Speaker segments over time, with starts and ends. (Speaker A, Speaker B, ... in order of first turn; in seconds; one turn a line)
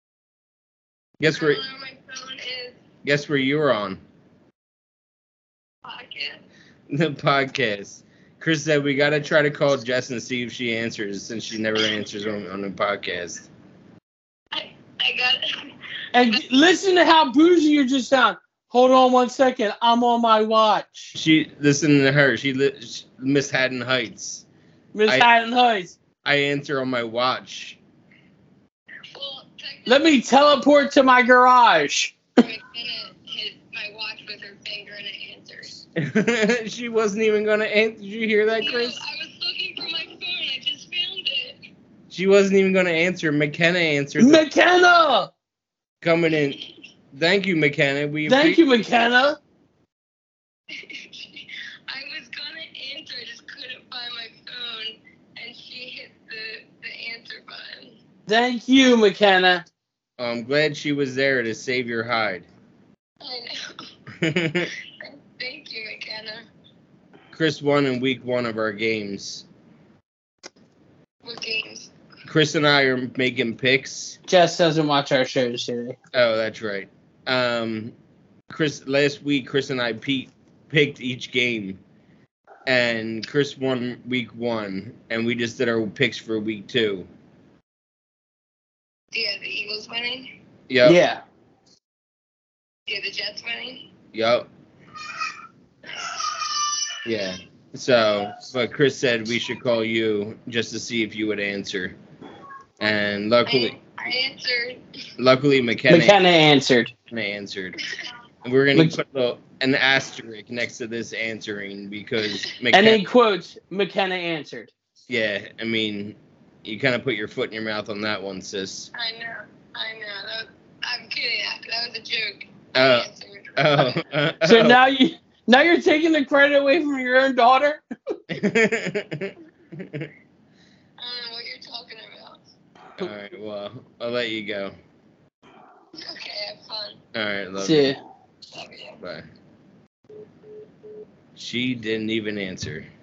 Speaker A: 1.2-1.6
Speaker B: 1.3-2.8
Speaker A: 3.0-4.0
Speaker B: 5.8-6.4
Speaker A: 6.9-13.5
Speaker B: 14.5-15.7
Speaker C: 16.1-21.1
Speaker A: 21.1-24.4
Speaker C: 24.9-26.0
Speaker A: 26.2-27.8
Speaker B: 29.1-30.1
Speaker C: 29.9-32.2
Speaker B: 32.4-35.8
Speaker A: 36.0-39.0
Speaker B: 38.6-41.6
Speaker A: 42.1-44.4
Speaker C: 44.2-45.3
Speaker A: 46.0-46.6
Speaker A: 47.1-48.6
Speaker C: 48.2-49.4
Speaker B: 50.7-58.0
Speaker C: 58.3-59.6
Speaker A: 60.2-62.5
Speaker B: 63.2-63.8
Speaker A: 64.2-64.7
Speaker B: 65.0-66.5
Speaker A: 67.3-69.5
Speaker B: 71.2-71.9
Speaker A: 72.2-74.2
Speaker C: 74.3-76.0
Speaker A: 76.1-77.9
Speaker A: 78.5-81.8
Speaker A: 82.7-87.1
Speaker B: 89.1-90.3
Speaker A: 90.7-91.0
Speaker C: 90.8-91.2
Speaker B: 92.9-93.9
Speaker A: 94.1-94.5
Speaker A: 97.0-102.0
Speaker A: 102.8-103.7
Speaker B: 103.5-104.8
Speaker A: 105.2-106.2
Speaker C: 105.9-106.9
Speaker A: 107.1-107.8
Speaker A: 108.4-113.0
Speaker C: 112.7-114.7
Speaker A: 115.1-118.9
Speaker B: 118.9-124.0
Speaker A: 122.7-124.8
Speaker C: 124.4-127.8
Speaker A: 128.3-130.1
Speaker B: 131.0-132.4
Speaker A: 133.0-134.7
Speaker B: 136.0-137.0
Speaker A: 137.1-137.9
Speaker C: 137.6-138.0
Speaker B: 138.5-139.0
Speaker A: 141.3-142.9